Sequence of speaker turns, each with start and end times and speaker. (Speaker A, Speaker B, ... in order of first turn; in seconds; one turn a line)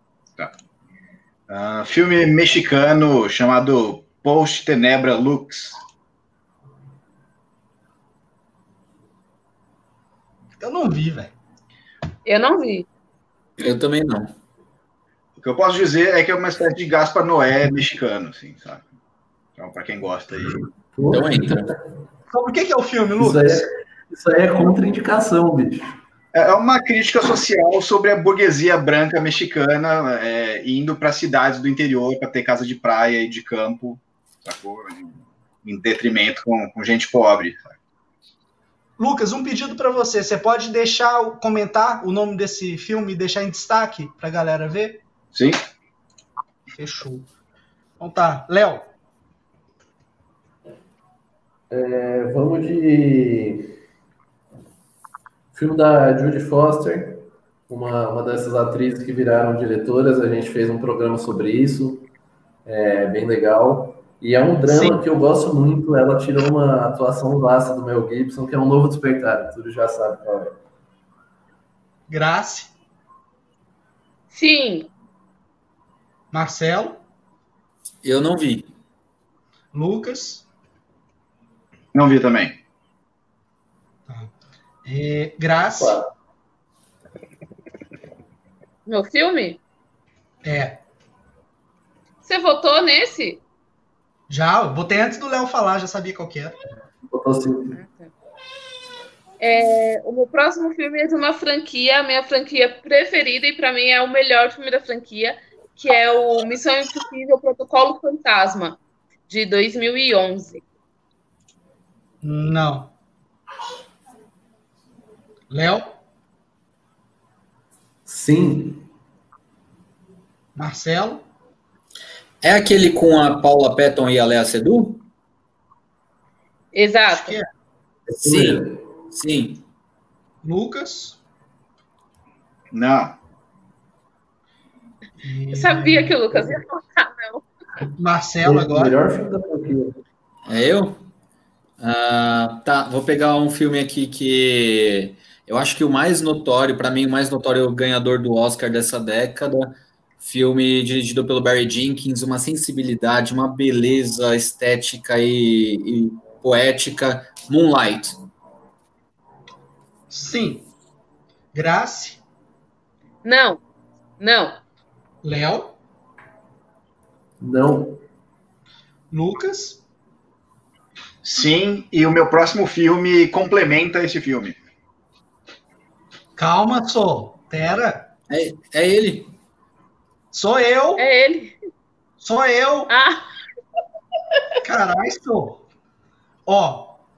Speaker A: 1.5-5.8
Speaker B: 10.6-11.3
Speaker C: 12.2-12.9
Speaker D: 13.6-14.3
Speaker A: 15.4-18.8
Speaker A: 19.6-20.6
Speaker E: 20.9-21.8
Speaker D: 21.1-21.7
Speaker B: 22.3-23.7
Speaker E: 23.2-26.0
Speaker A: 26.3-37.8
Speaker B: 39.0-45.0
Speaker A: 45.3-45.6
Speaker B: 46.7-47.3
Speaker B: 48.0-48.9
Speaker E: 51.7-53.8
Speaker E: 55.5-62.1
Speaker E: 62.6-70.6
Speaker B: 64.7-65.0
Speaker B: 72.1-72.7
Speaker C: 74.3-74.9
Speaker B: 76.3-77.0
Speaker D: 78.0-78.7
Speaker B: 79.7-80.5
Speaker A: 81.9-82.6
Speaker B: 84.8-86.0
Speaker E: 85.8-86.1
Speaker C: 88.8-89.6
Speaker B: 90.4-90.8
Speaker C: 92.2-93.4
Speaker B: 94.3-96.5
Speaker E: 97.1-97.8
Speaker C: 97.7-98.1
Speaker C: 99.4-110.6
Speaker B: 112.2-112.9
Speaker B: 115.5-116.0
Speaker E: 118.0-118.9
Speaker B: 120.5-121.2
Speaker D: 122.4-125.0
Speaker C: 126.7-127.4
Speaker B: 127.1-127.5
Speaker E: 128.1-128.8
Speaker D: 128.1-129.6
Speaker B: 130.4-131.2
Speaker A: 132.7-133.2
Speaker B: 135.2-136.2
Speaker C: 135.5-137.4
Speaker B: 138.0-138.9
Speaker E: 138.4-140.0
Speaker D: 140.5-141.0
Speaker D: 141.8-158.2
Speaker B: 160.1-160.7
Speaker B: 161.5-162.2
Speaker C: 163.2-163.6
Speaker C: 164.2-164.6
Speaker B: 165.2-165.8
Speaker E: 167.4-168.0
Speaker B: 169.1-169.8
Speaker A: 171.2-174.6
Speaker B: 176.4-178.1
Speaker D: 178.3-179.3
Speaker B: 180.3-181.1
Speaker C: 181.0-181.6
Speaker B: 182.2-182.9
Speaker C: 182.9-183.2
Speaker B: 184.6-185.6
Speaker B: 186.4-187.0